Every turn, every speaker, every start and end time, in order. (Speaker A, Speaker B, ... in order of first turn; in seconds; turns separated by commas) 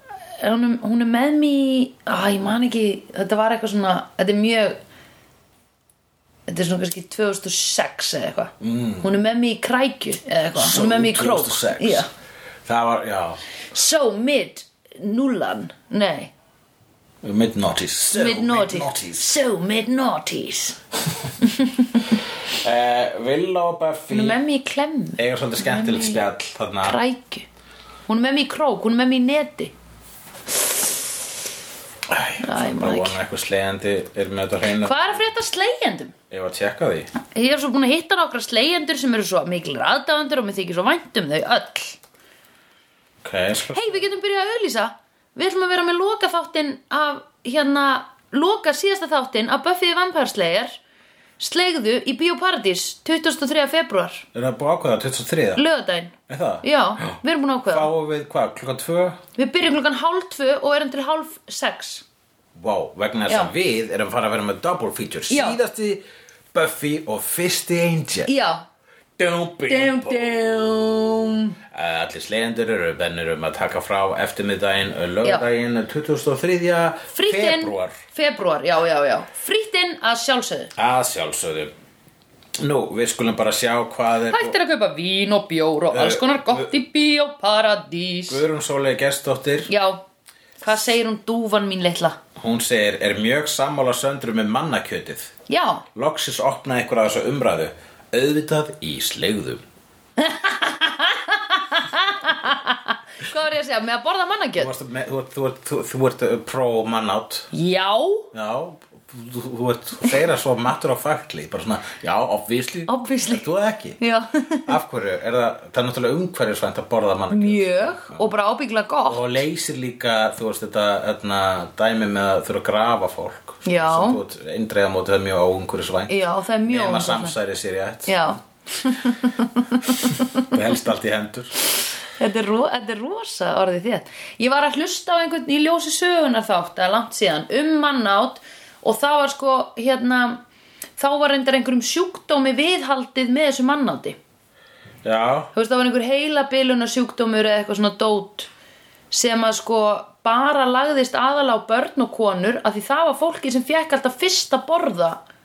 Speaker A: 0.4-4.8, Speaker A: 6.5-12.1, Speaker B: 8.6-9.1, Speaker B: 10.5-12.1, Speaker B: 12.7-13.4, Speaker A: 13.7-16.3, Speaker B: 17.2-19.4, Speaker A: 18.1-20.8, Speaker A: 21.4-22.0, Speaker B: 22.1-24.4, Speaker A: 24.1-26.2, Speaker B: 25.2-27.0, Speaker A: 26.8-27.4, Speaker A: 28.1-29.7, Speaker B: 32.1-35.1, Speaker A: 32.4-33.2, Speaker A: 34.8-36.1, Speaker B: 36.3-37.1, Speaker A: 37.2-42.0, Speaker B: 43.2-44.0, Speaker A: 43.7-50.8, Speaker A: 51.4-54.2, Speaker B: 54.3-55.6, Speaker A: 55.5-57.9, Speaker B: 56.3-59.2, Speaker A: 59.4-62.0, Speaker B: 62.5-68.3, Speaker A: 63.3-63.5, Speaker A: 65.3-65.6, Speaker A: 68.3-68.6, Speaker B: 69.2-78.0, Speaker A: 69.7-71.5, Speaker A: 77.1-80.7, Speaker B: 80.8-81.7, Speaker B: 82.6-84.5, Speaker A: 84.3-88.4, Speaker B: 85.9-86.8, Speaker B: 88.3-89.7, Speaker A: 89.7-90.0, Speaker A: 90.6-92.2, Speaker B: 92.3-95.3, Speaker A: 95.5-95.8, Speaker B: 95.9-99.6, Speaker A: 100.2-104.7, Speaker B: 104.5-107.5, Speaker A: 107.5-108.3, Speaker B: 108.3-114.0, Speaker A: 112.9-113.4, Speaker A: 114.0-114.7, Speaker B: 114.6-118.3, Speaker A: 117.3-119.3, Speaker B: 119.0-128.4, Speaker A: 123.6-124.2, Speaker A: 126.1-127.3, Speaker A: 128.1-130.6, Speaker B: 130.4-131.6, Speaker A: 132.1-140.4, Speaker A: 141.0-144.2, Speaker B: 145.0-145.5, Speaker A: 145.5-148.5, Speaker A: 149.1-155.2